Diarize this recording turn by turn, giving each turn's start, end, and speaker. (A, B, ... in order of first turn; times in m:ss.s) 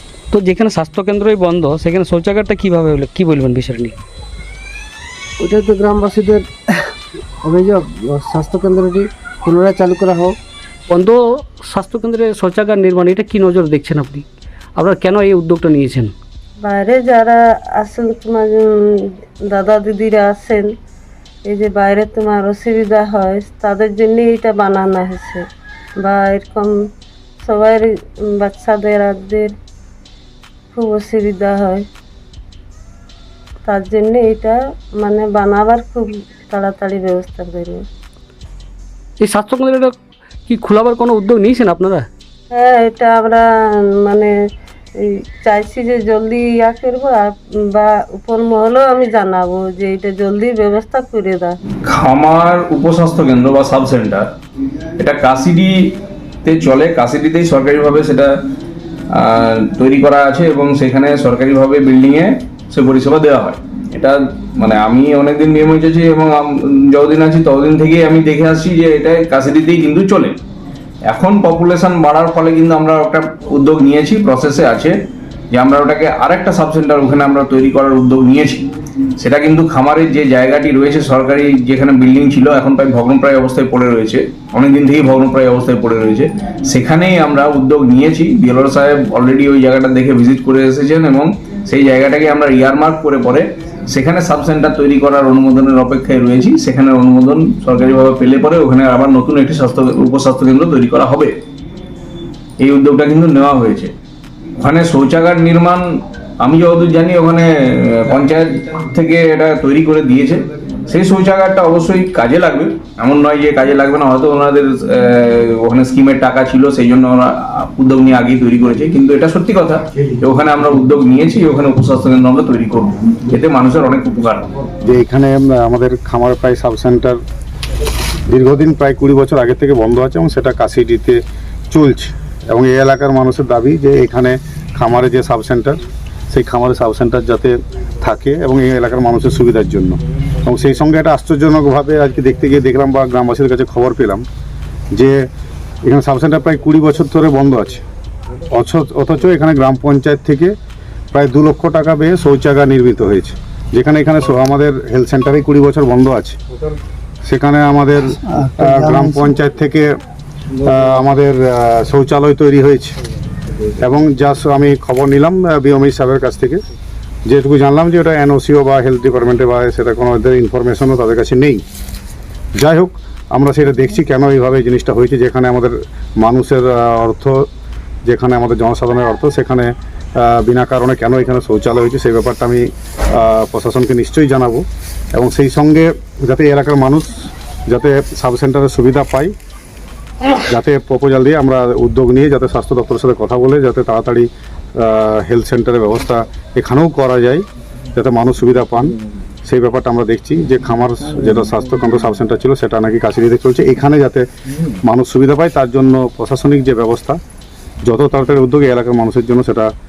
0:00.3-0:04.0 A
0:05.4-0:06.5 B
0:07.4-0:10.4 B
0:10.9-0:16.1 A
0:16.6-0:20.7 C
0:21.4-0:25.4 C
0:26.0-0:26.8 C
0:27.4-0:29.5 C
0:30.7-0:31.8 C
0:33.6-0:37.8 C
0:39.2-0:40.0 A
0:40.5-0:42.1 A
0:42.5-0:43.4 C
0:44.0-0:44.3 C
0:45.0-0:51.6 C
0:51.9-0:54.3 D
0:55.0-0:58.3 D
0:59.1-1:10.4 D
1:11.1-1:14.9 D
1:15.5-1:18.7 D
1:19.2-1:41.3 D
1:42.6-1:43.9 D
1:44.6-1:45.8 D
1:46.4-2:04.5 D
2:04.8-2:07.2 E
2:08.3-2:24.2 E
2:25.8-2:27.8 E
2:28.5-2:30.5 E
2:31.1-2:36.4 E
2:37.2-2:39.9 E
2:38.2-2:39.3 B
2:40.6-2:43.0 E
2:43.8-2:46.6 E
2:47.3-2:51.6 E
2:52.6-2:57.5 E
2:58.1-3:02.6 E
3:03.2-3:09.3 E
3:10.5-3:14.3 E
3:14.8-3:17.4 E
3:17.9-3:19.0 E
3:19.5-3:24.2 E
3:24.8-3:27.2 E
3:27.8-3:29.7 E